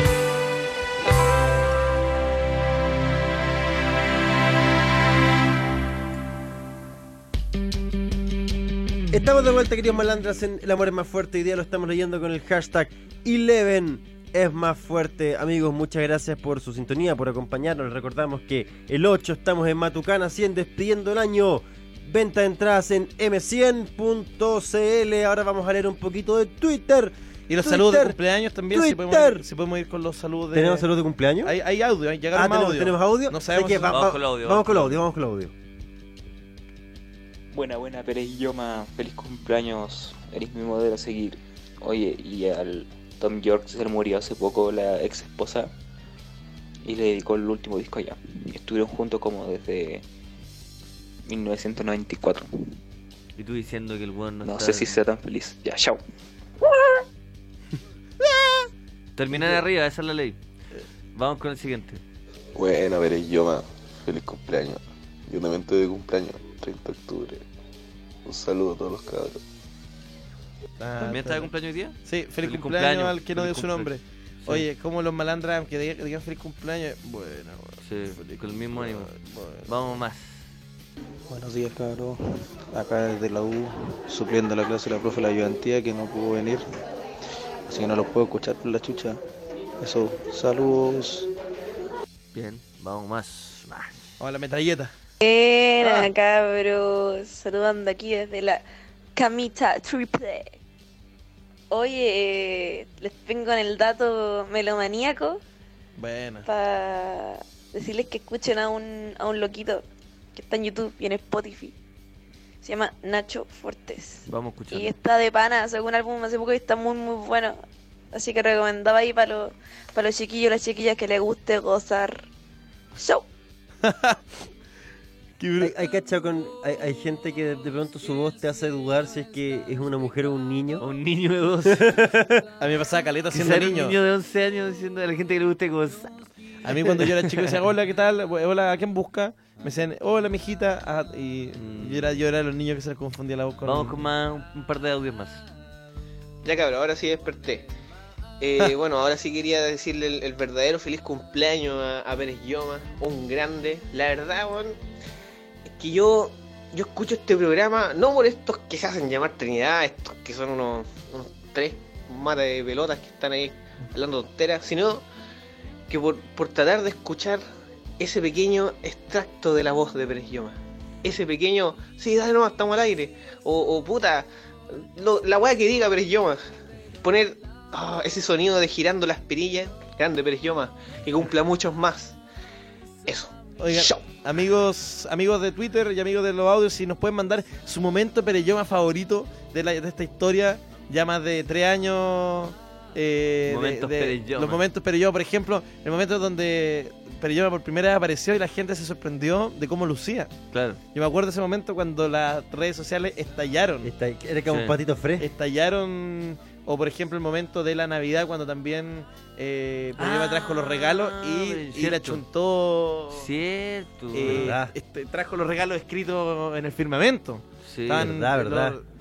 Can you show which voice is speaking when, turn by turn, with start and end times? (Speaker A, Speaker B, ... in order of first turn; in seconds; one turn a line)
Speaker A: 9.1-28.2
Speaker B: 27.5-30.9
Speaker A: 28.7-29.4
Speaker A: 30.5-31.5
Speaker B: 31.4-34.0
Speaker A: 32.4-35.5
Speaker C: 33.9-35.0
Speaker D: 37.5-45.7
Speaker D: 46.8-50.0
Speaker D: 51.3-52.7
Speaker C: 53.4-55.0
Speaker D: 54.4-56.0
Speaker C: 59.2-60.4
Speaker C: 61.1-62.0
Speaker E: 62.5-67.4
Speaker E: 68.3-69.4
Speaker B: 70.8-71.5
Speaker C: 71.0-73.9
Speaker B: 72.0-77.8
Speaker C: 77.8-79.1
Speaker B: 78.7-79.9
Speaker C: 79.7-80.5
Speaker F: 81.3-86.7
Speaker F: 87.7-89.2
Speaker F: 89.8-91.3
Speaker C: 92.3-94.0
Speaker B: 94.2-94.9
Speaker G: 95.2-98.6
Speaker B: 95.8-96.1
Speaker G: 99.2-100.5
Speaker G: 101.7-105.4
Speaker B: 106.0-106.5
Speaker G: 106.5-109.8
Speaker G: 110.3-111.8
Speaker G: 112.6-117.6
Speaker C: 114.3-114.9
Speaker G: 118.1-122.3
Speaker G: 123.0-123.3
Speaker B: 123.8-124.2
Speaker B: 125.4-125.7
Speaker A: 125.6-130.8
Speaker C: 130.8-131.9
Speaker A: 131.7-132.4
Speaker B: 132.6-134.0
Speaker C: 133.3-136.1
Speaker B: 136.7-144.0
Speaker C: 141.6-142.2
Speaker C: 143.7-145.4
Speaker H: 146.4-147.7
Speaker H: 148.4-154.8
Speaker H: 155.7-165.0
Speaker H: 165.9-167.4
Speaker H: 168.0-176.4
Speaker H: 177.0-182.2
Speaker H: 183.1-184.1
Speaker B: 183.6-200.3
Speaker C: 193.5-194.6
Speaker C: 200.5-200.8
Speaker B: 200.9-203.9
Speaker A: 203.8-205.3
Speaker C: 204.5-204.8
Speaker B: 205.2-213.3
Speaker C: 210.0-212.2
Speaker C: 213.1-214.5
Speaker B: 214.1-218.8
Speaker A: 214.2-214.7
Speaker C: 217.6-218.2
Speaker A: 217.9-218.8